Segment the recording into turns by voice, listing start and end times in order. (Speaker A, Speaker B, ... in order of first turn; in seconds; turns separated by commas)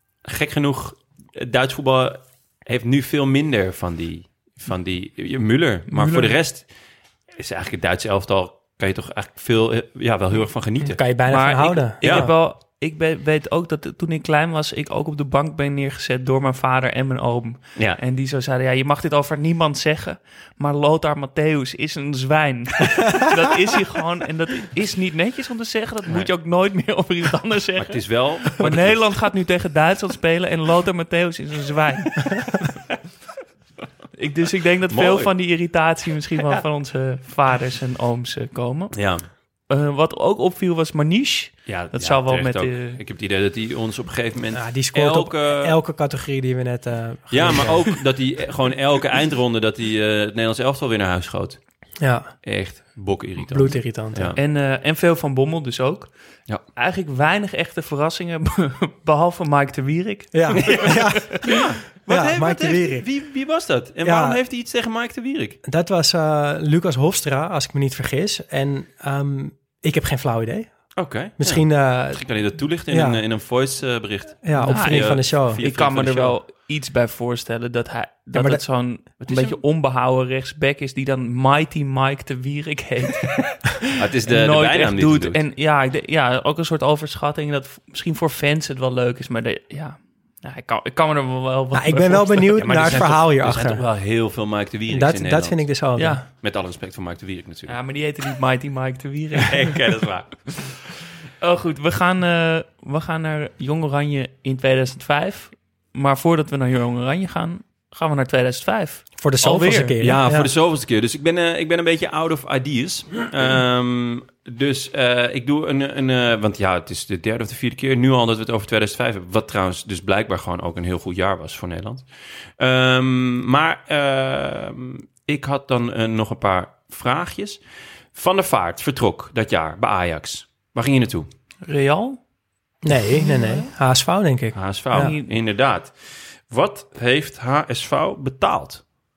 Speaker A: 0.2-6.7, Speaker B: 5.9-6.3, Speaker A: 7.3-11.0, Speaker C: 10.8-12.3, Speaker B: 11.3-32.6, Speaker A: 12.0-12.3, Speaker A: 27.8-29.0, Speaker B: 34.1-39.0, Speaker A: 34.9-35.3, Speaker A: 38.9-39.2, Speaker B: 39.7-43.0, Speaker A: 41.6-45.8, Speaker C: 44.5-47.9, Speaker A: 47.3-51.6, Speaker C: 52.0-52.3, Speaker A: 52.4-54.4, Speaker C: 53.4-54.3, Speaker B: 54.4-56.1, Speaker B: 56.8-61.4, Speaker C: 60.3-63.0, Speaker A: 60.6-65.6, Speaker C: 64.0-64.4, Speaker C: 65.6-70.7, Speaker A: 71.0-76.4, Speaker C: 71.4-72.2, Speaker C: 72.9-73.2, Speaker C: 74.4-75.6, Speaker B: 74.6-93.0, Speaker C: 78.3-78.6, Speaker A: 79.2-79.6, Speaker A: 83.9-85.4, Speaker C: 91.7-93.8, Speaker A: 92.6-95.7, Speaker C: 94.9-96.2, Speaker B: 96.0-96.2, Speaker A: 96.3-97.8, Speaker B: 97.7-99.8, Speaker A: 99.4-100.6, Speaker B: 101.4-110.0, Speaker C: 109.2-110.5, Speaker A: 110.0-122.0, Speaker A: 122.6-127.6, Speaker A: 128.1-131.3, Speaker B: 131.7-132.2, Speaker C: 132.8-135.1, Speaker B: 133.2-133.6, Speaker A: 134.5-135.9, Speaker B: 134.9-135.3, Speaker A: 136.5-138.8